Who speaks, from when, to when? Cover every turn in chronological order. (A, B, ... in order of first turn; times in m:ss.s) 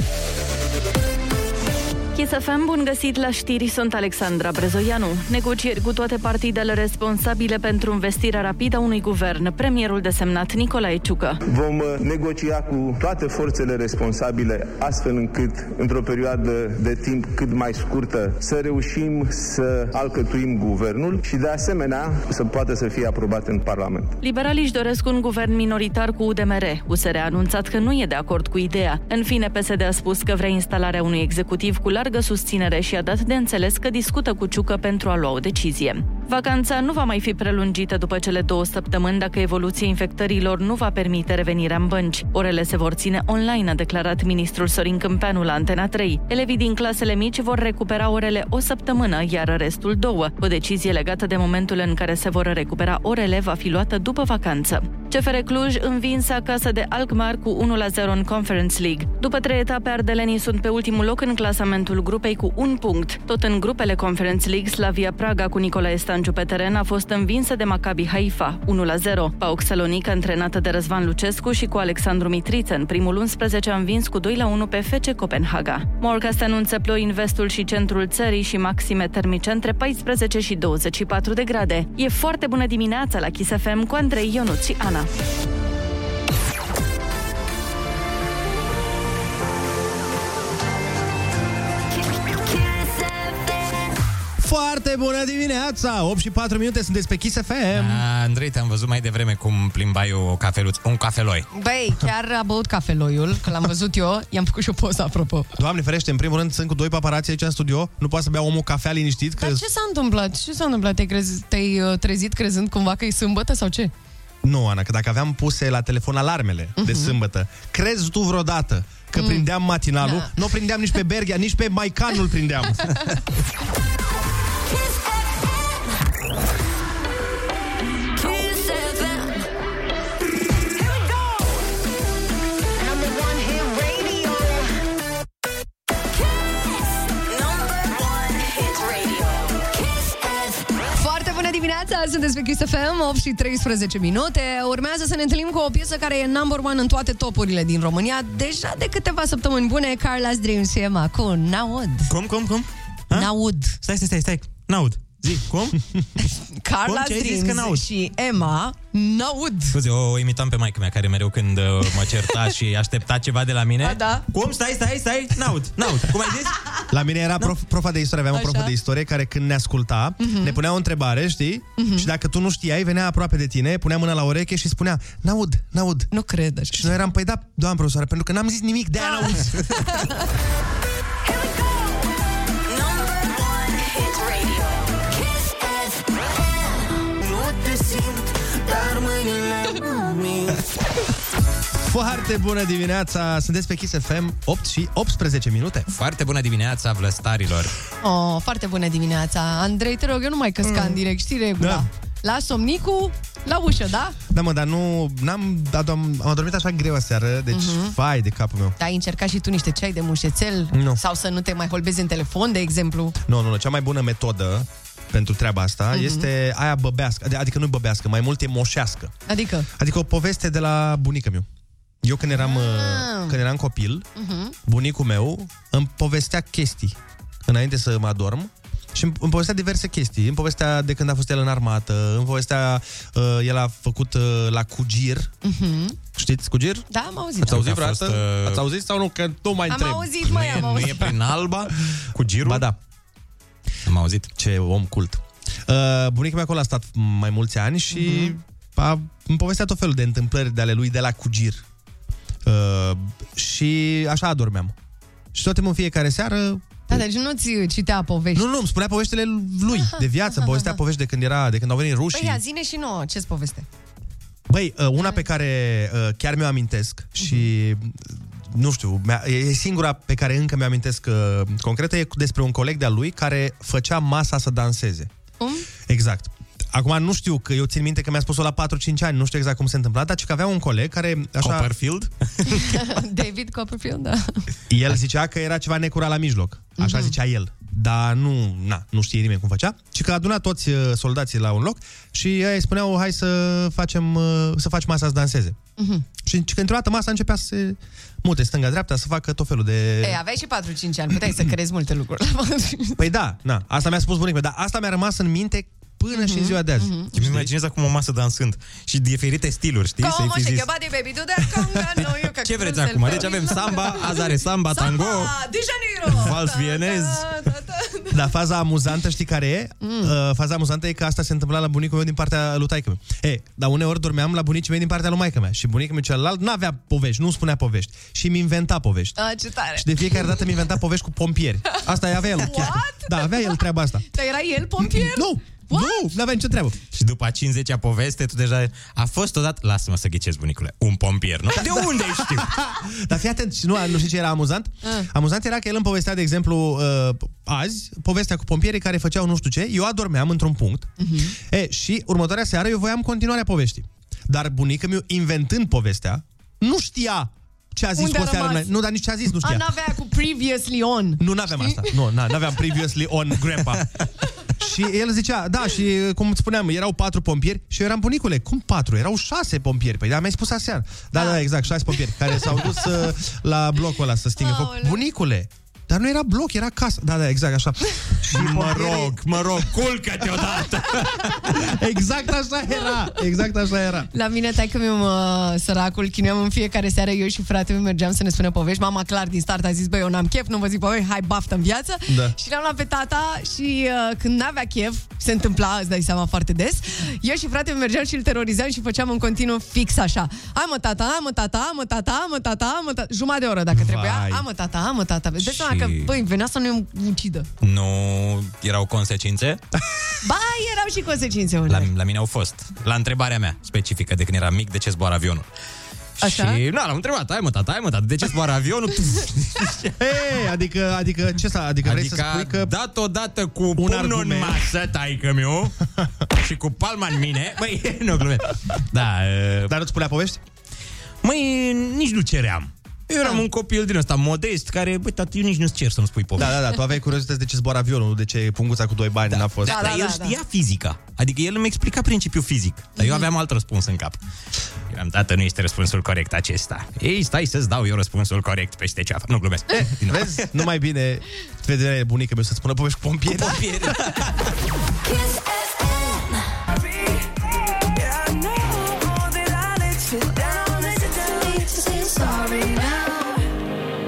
0:02.1-0:11.4 A
0:11.5-0:24.2 B
0:24.2-1:25.1 A
1:32.3-1:33.4 C
1:34.4-1:38.0 D
1:37.7-1:41.5 E
1:41.5-1:45.5 F
1:45.6-1:49.6 D
1:49.4-1:53.9 F
1:54.4-2:03.1 D
1:56.8-1:57.1 F
1:59.2-1:59.4 F
2:00.0-2:00.3 F
2:04.7-2:05.4 C
2:08.1-2:09.4 C
2:13.6-2:14.0 C
2:16.2-2:20.7 C
2:21.0-2:32.1 F
2:32.1-2:35.8 E
2:33.1-2:33.8 F
2:36.2-2:39.7 F
2:36.8-2:37.8 E
2:39.7-2:46.6 E
2:43.8-2:44.2 F
2:46.9-2:56.1 D
2:48.3-2:48.7 F
2:50.2-2:50.6 F
2:51.8-2:52.1 F
2:56.1-2:57.1 F
2:56.7-2:59.6 D
2:59.0-3:00.2 F
3:01.2-3:02.0 C
3:02.6-3:06.1 C
3:11.8-3:15.9 D
3:15.9-3:17.7 E
3:18.0-3:24.2 F
3:20.7-3:21.0 D
3:21.6-3:21.8 D
3:24.3-3:28.8 D
3:27.5-3:27.9 F
3:28.8-3:33.2 F
3:30.7-3:31.0 D
3:33.2-3:39.1 D
3:35.9-3:36.3 F
3:39.3-3:39.7 F
3:39.7-3:41.4 D
3:42.0-3:44.0 D
3:42.2-3:43.4 F
3:44.2-3:44.5 F
3:44.6-3:55.3 D
3:55.4-3:56.0 F
3:56.1-3:56.8 D
3:56.9-3:57.6 F
3:57.4-4:00.2 D
3:57.5-3:58.6 E
3:59.7-4:01.2 F
4:00.2-4:02.6 E
4:02.4-4:02.8 D
4:03.8-4:04.3 E
4:04.4-4:11.6 D
4:07.9-4:08.4 F
4:12.4-4:14.7 D
4:15.3-4:17.0 D
4:16.9-4:18.4 F
4:18.3-4:22.4 D
4:19.7-4:20.8 F
4:22.1-4:23.6 F
4:24.5-4:35.1 D
4:35.4-4:35.7 F
4:35.9-4:41.7 D
4:41.4-4:42.9 E
4:42.5-4:44.4 F
4:44.7-4:55.6 D
4:46.8-4:47.1 F
4:55.8-4:56.0 F
4:56.2-5:00.2 D
5:00.0-5:03.0 F
5:03.0-5:07.5 D
5:06.1-5:07.1 F
5:07.1-5:10.7 E
5:10.0-5:18.2 F
5:12.4-5:15.3 E
5:16.1-5:17.3 E
5:18.1-5:29.2 D
5:19.8-5:20.1 F
5:29.2-5:30.4 F
5:29.8-5:34.1 D
5:32.2-5:36.1 F
5:34.8-5:36.8 D
5:36.9-5:42.5 E
5:41.5-5:59.7 D
5:51.0-5:51.3 F
5:58.0-5:58.7 F
5:59.4-6:01.9 F
6:01.2-6:03.9 D
6:04.6-6:19.2 D
6:14.4-6:15.0 F
6:18.3-6:21.6 E
6:21.4-6:24.1 D
6:24.1-6:47.5 F
6:32.1-6:32.3 D
6:43.7-6:44.4 D
6:45.4-6:46.1 E
6:47.6-6:49.6 E
6:50.2-6:51.9 F
6:51.7-6:55.4 E
6:56.2-7:00.0 E
6:56.2-6:56.6 F
7:00.0-7:02.7 D
7:01.8-7:05.8 E
7:03.8-7:04.6 D
7:06.4-7:09.7 E
7:09.7-7:10.4 D
7:11.2-7:16.6 E
7:16.4-7:19.9 D
7:19.3-7:24.2 E
7:19.6-7:20.4 F
7:23.0-7:23.2 F
7:24.9-7:30.5 E
7:29.7-7:33.7 D
7:33.4-7:34.5 E
7:35.0-7:36.5 C
7:37.9-7:43.4 C